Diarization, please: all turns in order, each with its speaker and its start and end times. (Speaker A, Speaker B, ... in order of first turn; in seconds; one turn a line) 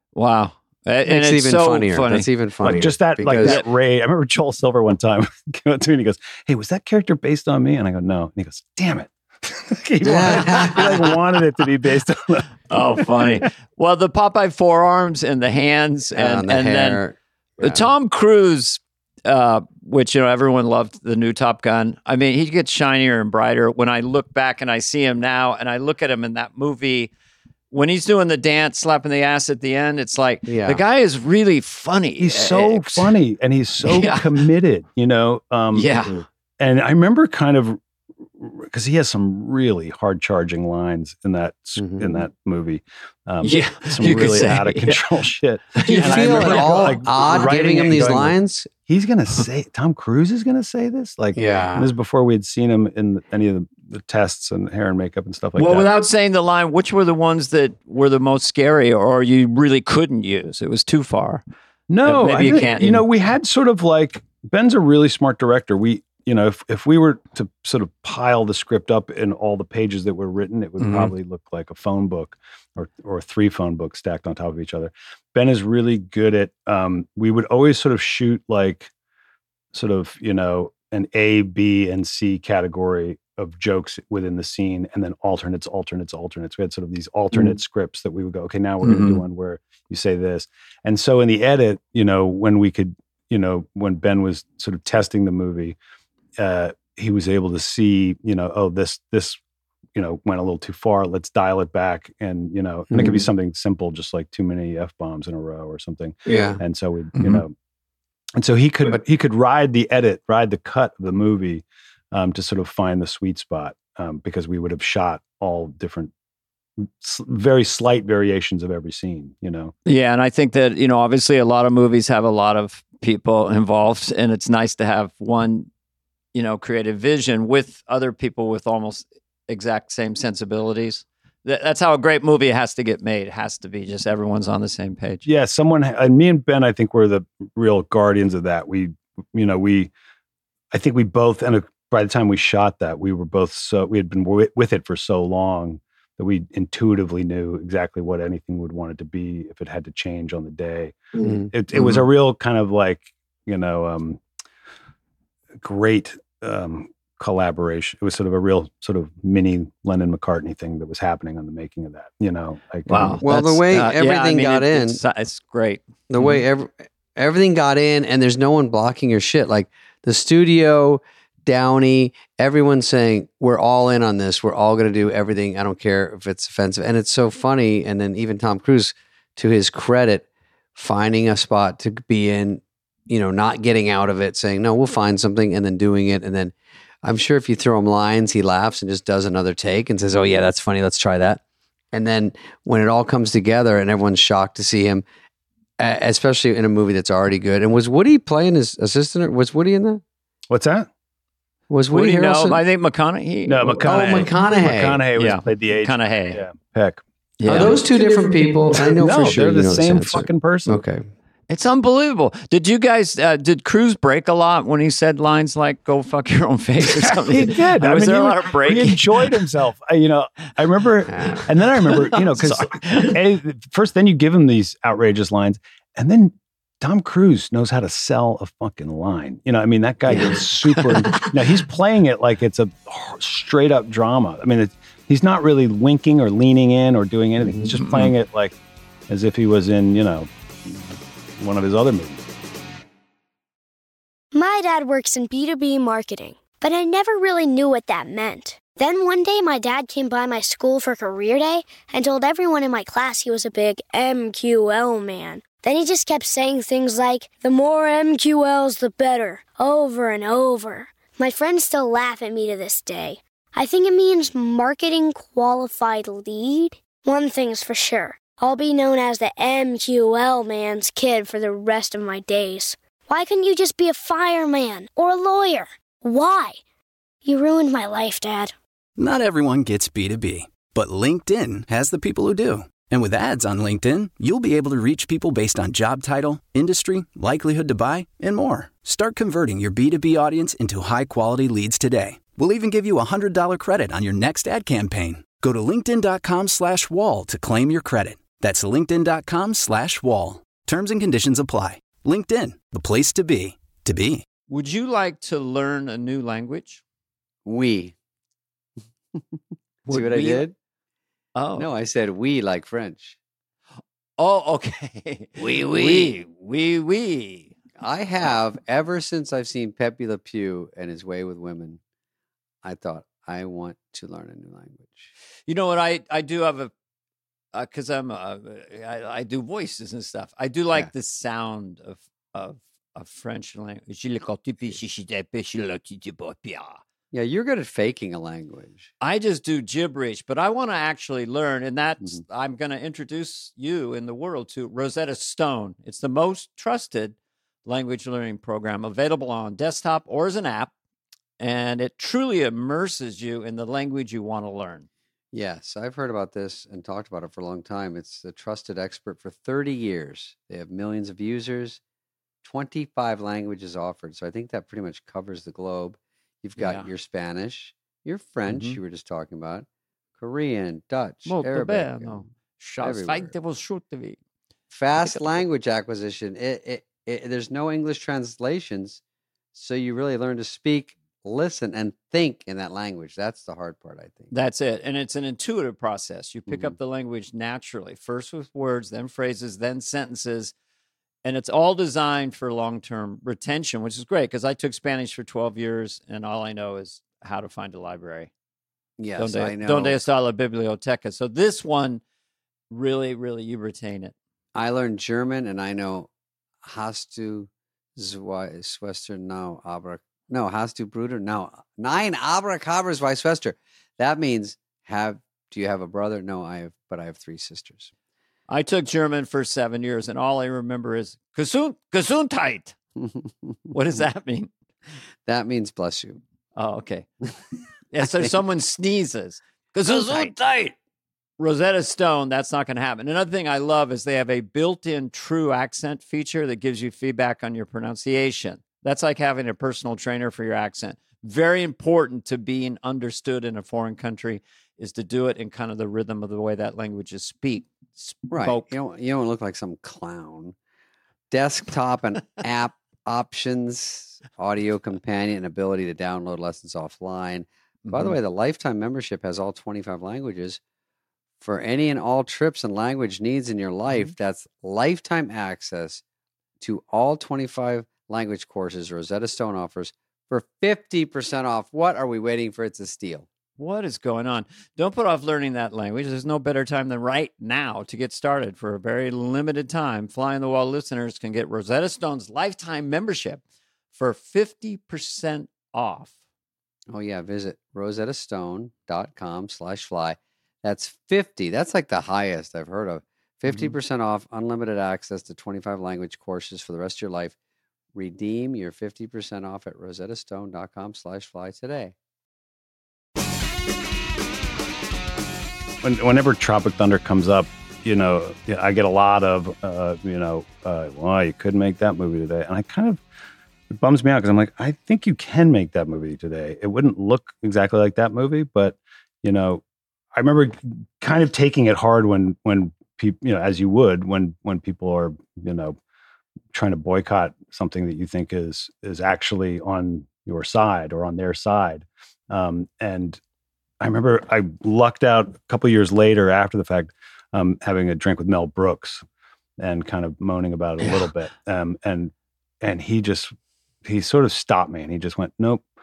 Speaker A: 0.1-2.3
Speaker B: 1.1-3.6
Speaker C: 2.6-13.4
Speaker B: 10.0-11.0
Speaker A: 12.7-17.0
Speaker B: 16.1-17.9
Speaker A: 17.6-27.1
Speaker A: 27.7-33.1
Speaker B: 30.5-30.8
Speaker C: 32.2-35.9
Speaker A: 33.8-34.5
Speaker A: 35.7-36.1
Speaker C: 36.6-37.8
Speaker C: 38.4-48.4
Speaker B: 41.8-42.2
Speaker A: 43.4-45.0
Speaker A: 45.8-47.0
Speaker B: 45.9-48.7
Speaker C: 48.9-55.9
Speaker B: 51.3-51.9
Speaker A: 55.6-61.4
Speaker C: 61.9-78.9
Speaker A: 62.0-63.0
Speaker A: 70.8-71.1
Speaker C: 79.7-95.8
Speaker A: 88.8-89.2
Speaker C: 96.4-99.4
Speaker C: 100.0-107.5
Speaker B: 102.9-103.2
Speaker B: 106.3-106.6
Speaker A: 107.2-107.4
Speaker C: 108.4-116.1
Speaker C: 116.8-119.7
Speaker A: 119.9-125.7
Speaker A: 126.3-135.2
Speaker C: 135.2-139.9
Speaker C: 140.7-154.2
Speaker B: 151.2-151.5
Speaker C: 155.6-163.2
Speaker A: 162.9-166.4
Speaker B: 163.2-165.0
Speaker B: 166.1-191.4
Speaker B: 191.9-195.0
Speaker B: 195.8-200.0
Speaker C: 200.5-200.9
Speaker B: 201.7-202.6
Speaker A: 201.9-203.8
Speaker C: 203.5-207.8
Speaker B: 203.8-205.0
Speaker A: 205.2-206.4
Speaker A: 207.4-207.8
Speaker B: 207.5-211.0
Speaker C: 209.0-210.8
Speaker A: 211.5-219.4
Speaker C: 216.8-238.6
Speaker B: 221.1-221.4
Speaker A: 221.3-223.2
Speaker B: 230.1-230.4
Speaker A: 230.7-231.3
Speaker B: 237.4-237.7
Speaker A: 237.8-238.1
Speaker C: 239.1-242.2
Speaker D: 244.3-276.6
Speaker D: 277.2-278.5
Speaker E: 279.0-304.2
Speaker A: 304.5-306.8
Speaker B: 307.4-307.9
Speaker A: 309.9-310.4
Speaker B: 309.9-310.5
Speaker A: 311.4-311.7
Speaker B: 311.6-313.2
Speaker A: 314.2-317.5
Speaker B: 315.4-316.2
Speaker B: 317.8-321.8
Speaker B: 322.6-325.1
Speaker A: 325.5-326.7
Speaker A: 327.5-336.8
Speaker B: 337.1-338.9
Speaker A: 339.0-350.7
Speaker A: 351.4-354.9
Speaker B: 355.3-361.8
Speaker B: 362.4-369.7
Speaker A: 366.6-366.9
Speaker A: 368.5-368.8
Speaker B: 370.2-372.2
Speaker A: 371.3-374.2
Speaker B: 372.8-373.3
Speaker B: 374.7-379.0
Speaker B: 379.5-384.3
Speaker A: 384.3-390.5
Speaker B: 386.5-386.8
Speaker A: 391.2-398.3
Speaker B: 399.0-400.0
Speaker A: 399.2-402.0
Speaker A: 402.7-404.1
Speaker B: 404.6-406.1
Speaker B: 406.6-417.9
Speaker A: 418.5-422.8
Speaker A: 423.7-424.5
Speaker B: 425.3-426.2
Speaker A: 426.6-427.1
Speaker A: 427.9-430.4
Speaker B: 429.9-430.7
Speaker A: 431.4-448.7
Speaker B: 448.3-450.6
Speaker B: 451.3-460.6
Speaker A: 457.9-458.2
Speaker B: 461.4-466.0
Speaker B: 466.6-473.3
Speaker A: 473.6-483.4
Speaker A: 483.9-486.1
Speaker B: 486.9-497.4
Speaker B: 497.9-501.9
Speaker C: 505.8-513.0
Speaker C: 513.7-519.6
Speaker C: 520.1-525.8
Speaker C: 526.5-533.2
Speaker C: 533.8-539.0
Speaker C: 539.6-543.3
Speaker C: 543.8-545.6